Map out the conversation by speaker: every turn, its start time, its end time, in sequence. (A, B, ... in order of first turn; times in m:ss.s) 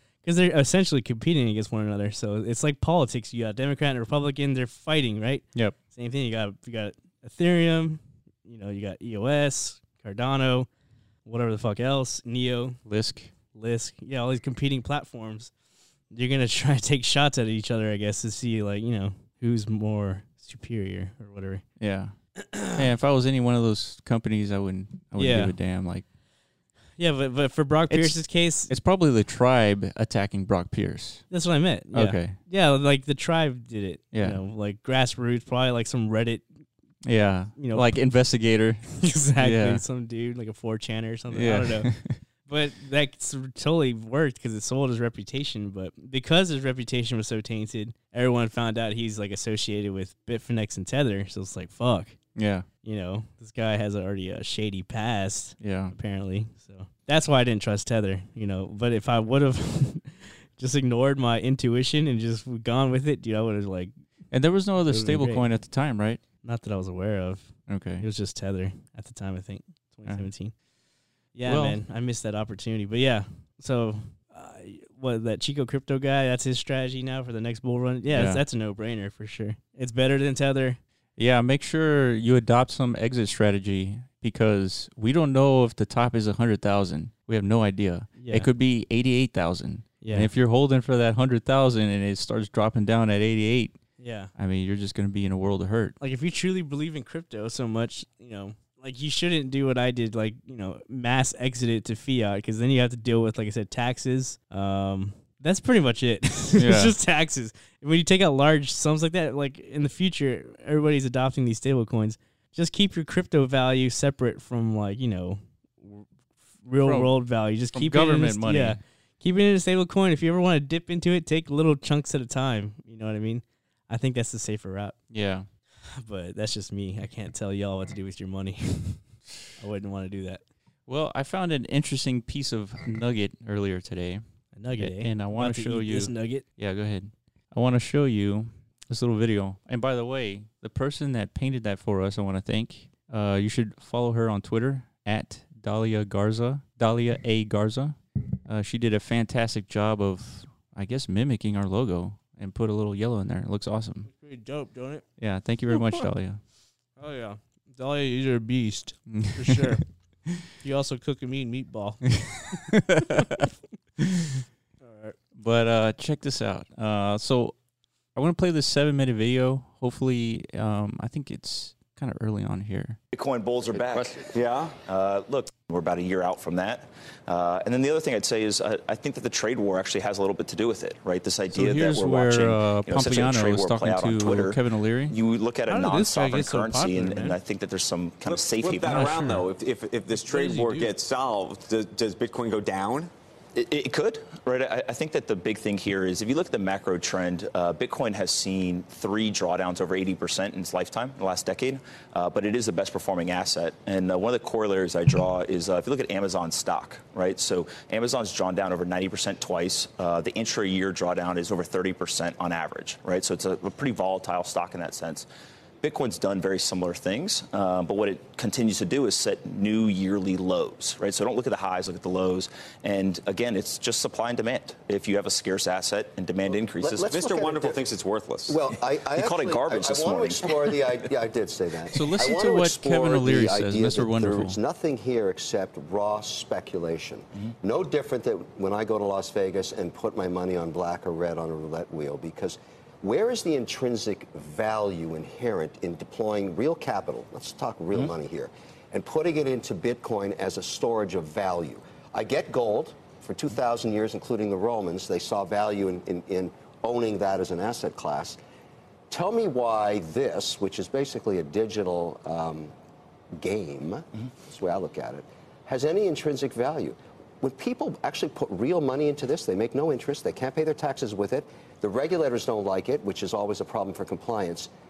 0:00.2-0:10.7 A
0:11.2-0:12.8 A
0:12.9-0:13.3 B
0:13.5-0:15.5 A
0:16.1-0:21.6 A
0:21.8-0:22.1 B
0:22.4-0:22.9 A
0:22.7-0:26.0 B
0:25.2-0:25.6 A
0:27.0-0:28.8 A
0:27.9-0:31.2 B
0:31.3-0:36.5 A
0:31.9-0:32.4 B
0:34.1-0:34.4 B
0:37.0-0:39.8 B
0:37.6-0:38.0 A
0:39.0-0:41.9 A
0:41.3-0:42.2 B
0:42.5-0:52.2 A
0:52.4-0:52.7 B
0:52.8-1:03.9 A
0:55.6-0:56.0 B
1:04.3-1:06.2 B
1:04.9-1:05.5 A
1:06.4-1:10.5 A
1:07.7-1:08.1 B
1:11.4-1:20.8 A
1:11.5-1:11.8 B
1:18.1-1:18.4 B
1:21.2-1:33.8 B
1:28.2-1:28.5 A
1:30.0-1:30.3 A
1:34.0-1:34.3 A
1:34.4-1:36.0 B
1:36.0-1:56.1 A
1:46.6-1:47.0 B
1:56.6-2:05.0 A
1:56.8-1:57.2 B
1:57.7-1:58.8 B
2:05.1-2:05.5 B
2:06.0-2:09.0 A
2:09.6-2:10.4 A
2:10.9-2:14.2 B
2:14.5-2:16.4 A
2:14.8-2:34.1 B
2:34.1-2:35.0 A
2:35.2-2:36.4 B
2:35.7-2:36.0 A
2:37.0-2:39.9 A
2:39.1-2:40.5 B
2:40.6-2:43.5 A
2:42.2-2:43.4 B
2:44.0-2:44.4 B
2:44.8-2:45.2 A
2:45.4-2:47.6 B
2:48.2-2:53.0 B
2:53.1-3:09.1 C
2:53.8-2:54.8 D
3:01.5-3:05.2 B
3:05.7-3:07.4 A
3:08.3-3:13.1 D
3:08.9-3:09.5 B
3:10.3-3:10.9 A
3:13.6-3:35.3 C
3:35.8-3:47.1 C
3:46.7-3:47.8 E
3:47.0-3:48.7 D
3:48.5-4:18.4 E
3:49.2-3:50.9 C
3:51.9-3:54.6 B
4:19.1-4:22.7 E
4:23.3-4:34.7 E